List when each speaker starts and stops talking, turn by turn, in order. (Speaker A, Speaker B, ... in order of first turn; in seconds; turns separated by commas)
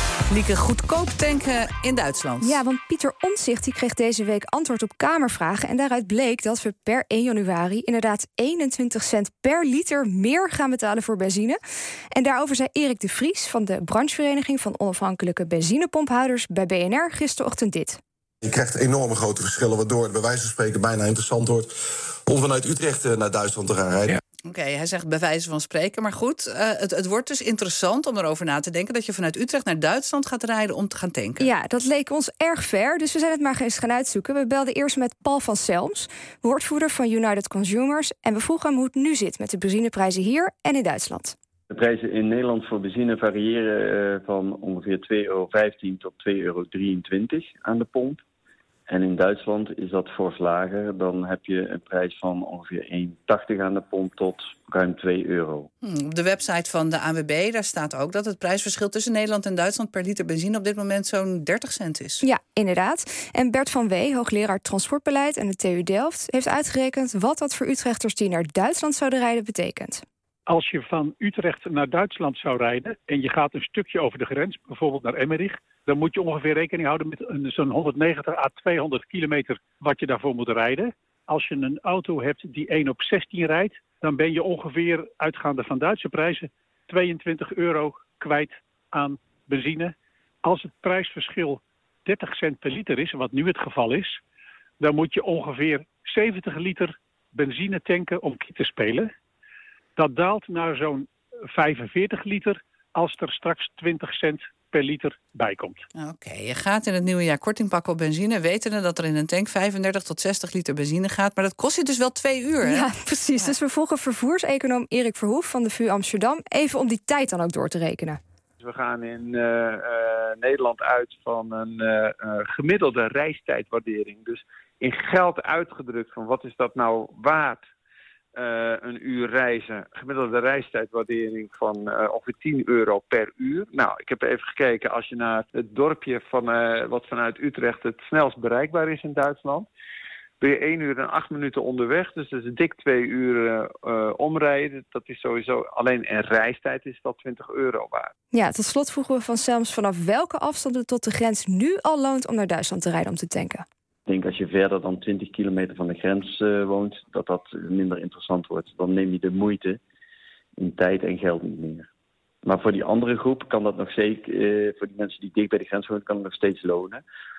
Speaker A: 0.3-2.6, Speaker B: 2.4-11.6, Speaker B: 12.1-18.0, Speaker C: 18.4-21.7, Speaker C: 22.2-24.2, Speaker A: 24.5-31.5, Speaker B: 31.4-41.4, Speaker D: 41.7-48.2, Speaker D: 48.9-55.7, Speaker A: 55.8-62.2, Speaker B: 62.2-70.0, Speaker E: 70.5-94.2, Speaker E: 94.8-99.1, Speaker E: 100.0-105.8, Speaker A: 106.0-112.9, Speaker B: 112.6-118.2, Speaker F: 118.6-127.6, Speaker F: 128.3-139.7, Speaker F: 140.4-148.1, Speaker B: 148.3-153.6, Speaker D: 154.1-159.8, Speaker D: 160.6-161.9, Speaker D: 162.4-167.0